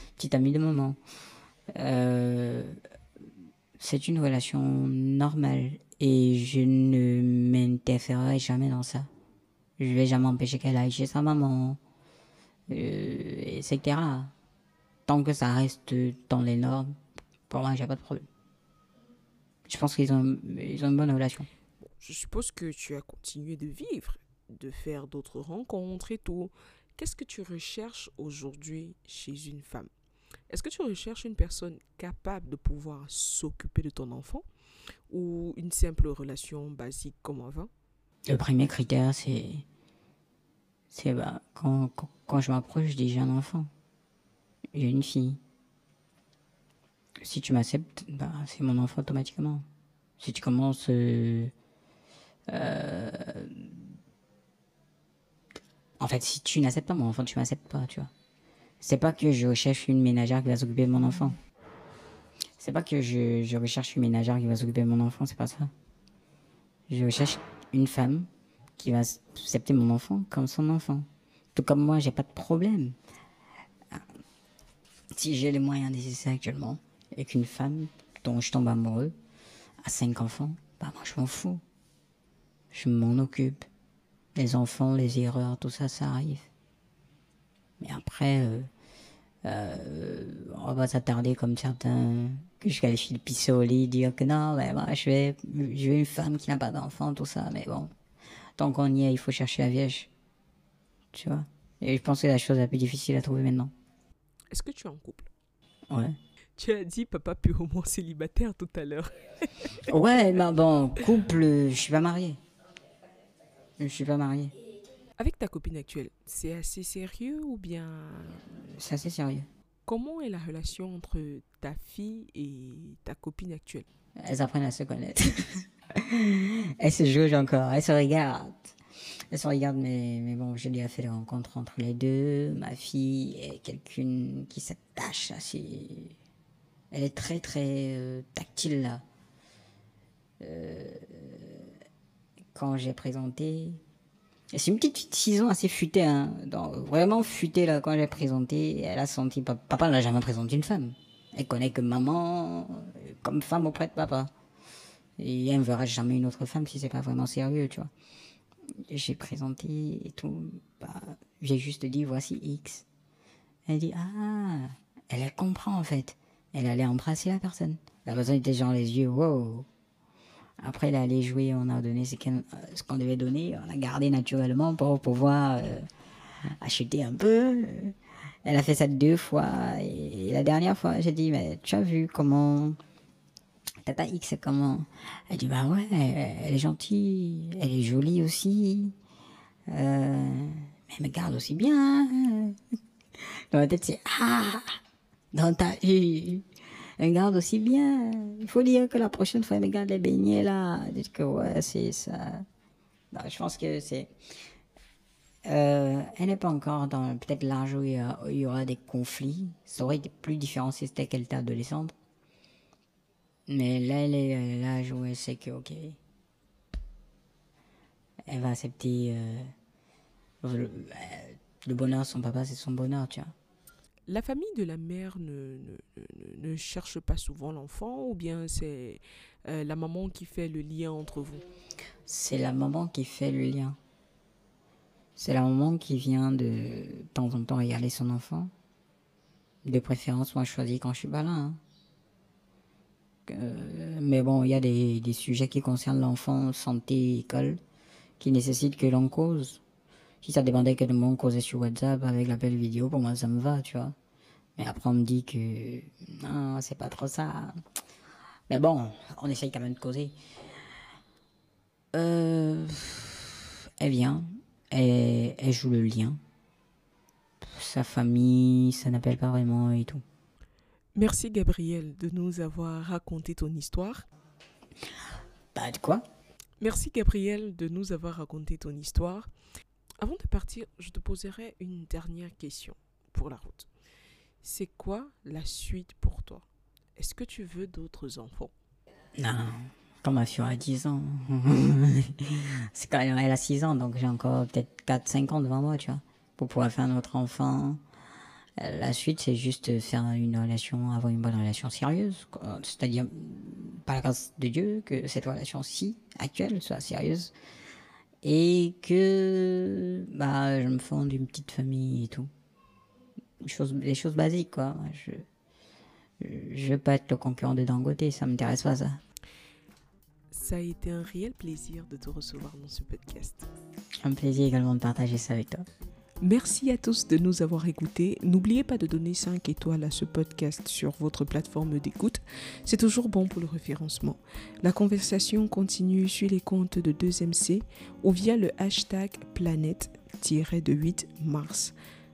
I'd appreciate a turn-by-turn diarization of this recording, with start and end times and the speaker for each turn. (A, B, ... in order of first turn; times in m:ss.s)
0:00.2-0:01.0 A
0:01.7-0:02.8 A
0:03.8-0:09.1 A
0:09.8-0:11.8 A
0:12.7-0:14.3 A
0:15.1-0:17.0 A
0:17.5-0:18.2 A
0:19.6-0:21.5 A
0:21.9-0:29.9 B
0:30.5-0:34.4 B
0:35.1-0:37.7 B
0:38.3-0:39.6 A
0:40.9-0:43.7 A
0:44.7-0:45.4 A
0:47.2-0:49.6 A
0:50.2-0:51.5 A
0:52.5-0:53.8 A
0:56.0-0:58.1 A
0:58.8-1:01.4 A
1:02.6-1:05.7 A
1:06.9-1:13.0 A
1:15.1-1:19.1 A
1:19.8-1:21.6 A
1:22.7-1:23.6 A
1:24.3-1:26.5 A
1:27.8-1:28.7 A
1:29.4-1:37.9 A
1:38.6-1:40.1 A
1:41.1-1:43.7 A
1:44.5-1:45.3 B
1:45.9-1:46.2 A
1:46.6-1:49.8 B
1:49.8-1:52.4 A
1:53.8-1:54.5 A
1:55.2-1:58.5 B
1:58.6-1:59.5 A
1:59.9-2:03.8 B
2:04.2-2:08.7 A
2:09.3-2:16.2 A
2:16.9-2:19.0 A
2:20.4-2:21.7 A
2:22.5-2:23.8 A
2:24.5-2:34.3 A
2:35.2-2:37.9 A
2:38.9-2:42.8 A
2:43.6-2:49.7 A
2:50.6-2:55.9 A
2:56.4-3:02.8 A
3:03.8-3:08.9 A
3:09.7-3:12.6 A
3:13.2-3:14.8 A
3:15.3-3:16.4 A
3:17.0-3:22.4 A
3:23.1-3:24.1 A
3:25.4-3:31.9 A
3:33.5-3:36.0 A
3:38.3-3:39.5 A
3:40.4-3:43.3 A
3:44.1-3:51.4 B
3:52.0-3:53.8 A
3:55.2-3:58.5 A
3:59.6-4:01.6 A
4:03.3-4:07.6 A
4:08.2-4:09.6 A
4:10.2-4:13.9 A
4:14.6-4:17.5 A
4:18.5-4:20.2 A
4:21.9-4:26.2 A
4:27.4-4:30.0 A
4:30.9-4:34.0 B
4:35.5-4:36.0 A
4:36.6-4:39.3 B
4:40.0-4:43.7 B
4:44.4-4:46.4 B
4:47.0-4:48.5 B
4:49.2-4:57.8 A
4:58.6-5:07.3 A
5:08.2-5:12.3 A
5:13.4-5:15.2 A
5:16.2-5:19.0 A
5:20.3-5:23.5 B
5:24.0-5:25.7 A
5:26.2-5:41.7 B